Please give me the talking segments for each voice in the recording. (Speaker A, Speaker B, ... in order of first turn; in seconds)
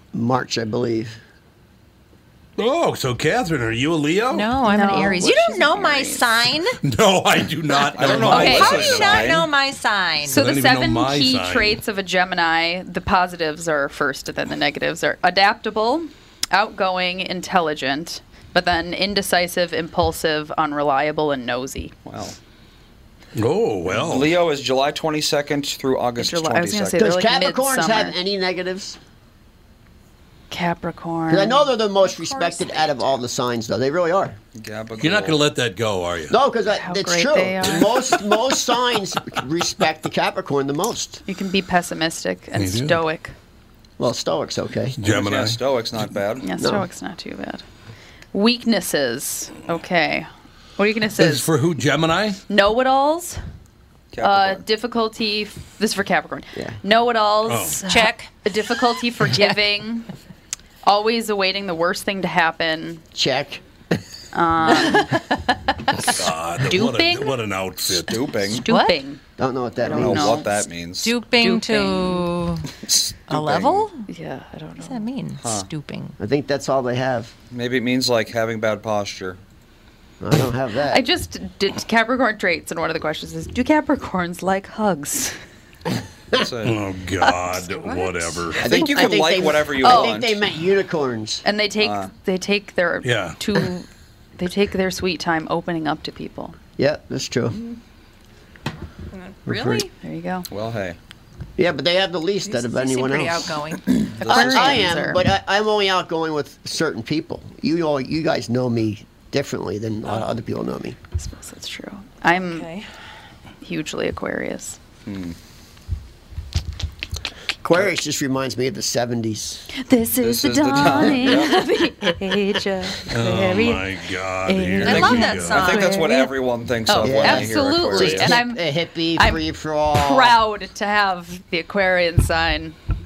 Speaker A: 0.1-1.2, 27.0-29.0, 31.3-34.4, 36.3-41.2, 44.0-45.0, 46.6-46.9, 63.1-64.0, 69.4-70.4, 76.2-77.3, 80.2-81.0, 88.6-91.4, 96.8-97.5, 99.5-99.8, 101.6-103.5, 104.3-111.0, 117.6-119.7, 121.0-121.4, 127.0-130.4
Speaker B: 2.6-4.5, 6.8-9.4, 10.3-11.8, 23.4-24.4, 35.0-36.4, 42.5-43.0, 45.0-45.6, 51.2-52.4, 57.5-57.8, 65.9-68.2, 86.6-88.7, 93.0-93.4, 123.1-125.7
Speaker C: 4.3-6.8, 8.0-10.4, 57.9-58.4, 68.7-69.0, 71.0-72.6, 73.3-74.0, 74.8-76.2, 99.2-99.9, 102.5-104.7, 112.4-112.8, 124.8-126.2
Speaker D: 4.7-6.4, 8.2-8.8, 10.2-21.9, 26.2-28.1, 30.5-33.1, 36.7-38.2, 41.3-43.3, 46.4-47.6, 48.3-51.5, 52.5-53.4, 54.2-60.1, 60.8-63.0, 64.3-67.4, 68.4-69.2, 69.8-70.6, 71.4-72.3, 74.1-75.1, 80.9-85.3, 87.2-90.2, 91.4-93.9, 94.4-96.5, 100.0-100.5, 104.2-105.2, 111.2-112.7, 113.6-114.8, 119.7-123.9, 124.5-126.3, 126.8-128.6, 129.2-129.4, 129.9-132.8
Speaker E: 8.0-9.5, 22.0-22.4, 23.9-27.0, 34.5-35.4, 45.0-46.5, 54.1-54.6, 67.9-68.6, 69.9-71.1, 72.8-73.8, 75.4-75.7, 77.5-79.4, 86.3-86.8, 88.7-90.4, 91.8-92.1, 97.5-97.8, 100.5-101.0, 104.2-104.8, 115.0-115.3, 120.2-121.5, 124.8-128.3